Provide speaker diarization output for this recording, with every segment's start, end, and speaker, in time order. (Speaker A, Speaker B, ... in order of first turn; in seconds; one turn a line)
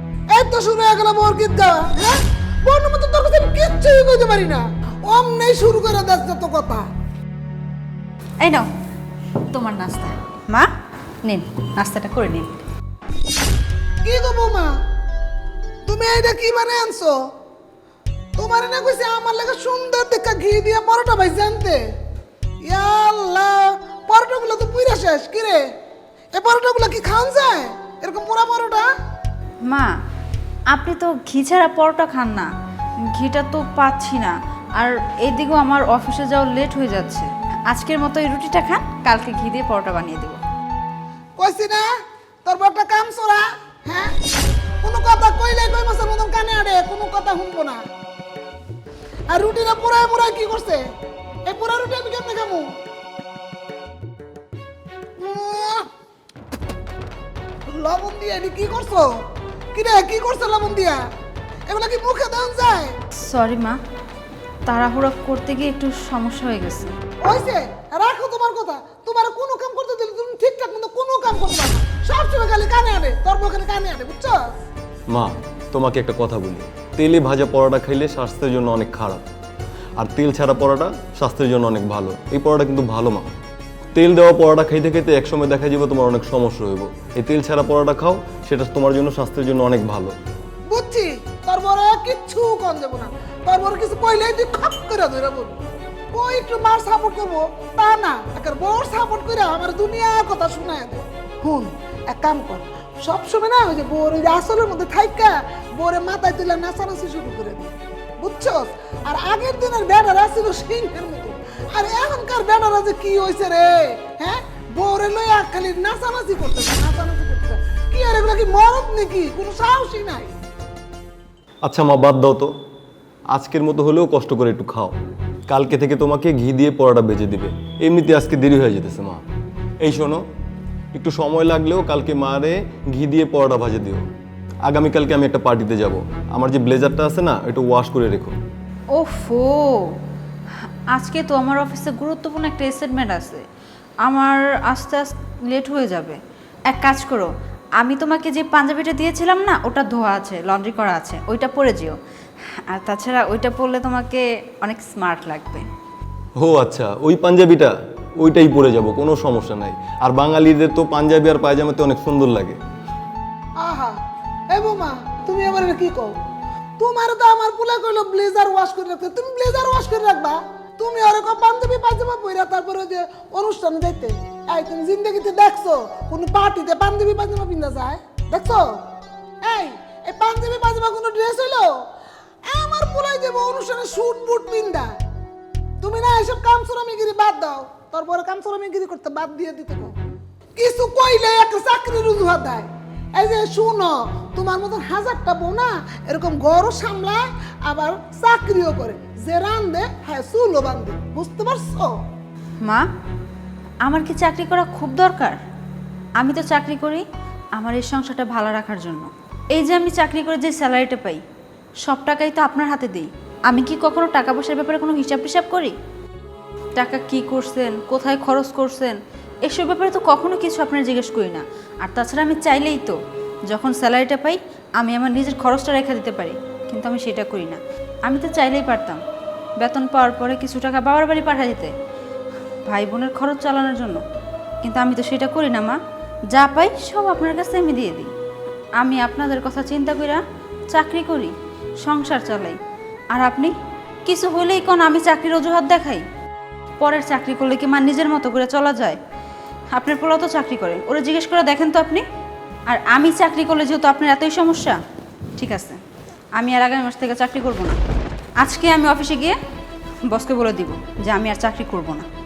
Speaker A: 0.3-6.8
Speaker B: 8.4-8.7
Speaker B: 9.5-10.7
Speaker B: 11.3-12.6
Speaker A: 14.1-14.7
Speaker A: 15.9-17.2
Speaker A: 18.4-21.8
Speaker A: 22.6-25.6
Speaker A: 26.3-28.9
Speaker B: 30.7-32.5
Speaker B: 33.0-40.4
Speaker A: 41.4-41.9
Speaker A: 42.5-44.1
Speaker A: 44.8-47.8
Speaker A: 49.3-50.8
Speaker A: 51.5-52.7
Speaker A: 55.2-55.8
Speaker A: 57.7-59.1
Speaker A: 59.7-61.0
Speaker A: 61.7-62.9
Speaker B: 63.2-63.8
Speaker B: 64.7-66.9
Speaker A: 67.2-74.4
Speaker C: 75.1-79.2
Speaker C: 80.0-83.3
Speaker C: 84.0-90.2
Speaker A: 90.7-95.6
Speaker A: 96.1-120.3
Speaker C: 121.6-122.5
Speaker C: 123.3-125.0
Speaker C: 125.5-129.2
Speaker C: 129.8-130.2
Speaker C: 130.9-134.0
Speaker C: 134.7-138.4
Speaker B: 138.9-139.9
Speaker B: 140.9-143.4
Speaker B: 144.1-146.2
Speaker B: 146.7-151.9
Speaker B: 152.7-155.7
Speaker C: 156.4-162.6
Speaker A: 163.6-163.9
Speaker A: 164.5-166.1
Speaker A: 166.8-178.7
Speaker A: 179.4-181.7
Speaker A: 182.5-184.9
Speaker A: 185.8-189.9
Speaker A: 190.6-201.9
Speaker B: 203.8-205.4
Speaker B: 206.2-207.1
Speaker B: 207.6-211.2
Speaker B: 211.8-215.8
Speaker B: 216.8-223.0
Speaker B: 223.5-229.0
Speaker B: 229.6-231.7
Speaker B: 232.7-234.0
Speaker B: 234.6-235.8
Speaker B: 236.3-238.1
Speaker B: 238.8-241.3
Speaker B: 241.8-242.6
Speaker B: 243.1-243.5
Speaker B: 244.1-246.0
Speaker B: 246.8-249.0
Speaker B: 249.7-252.0
Speaker B: 252.7-254.8
Speaker B: 255.4-255.8
Speaker B: 256.4-257.8
Speaker B: 258.4-259.4
Speaker B: 260.1-262.1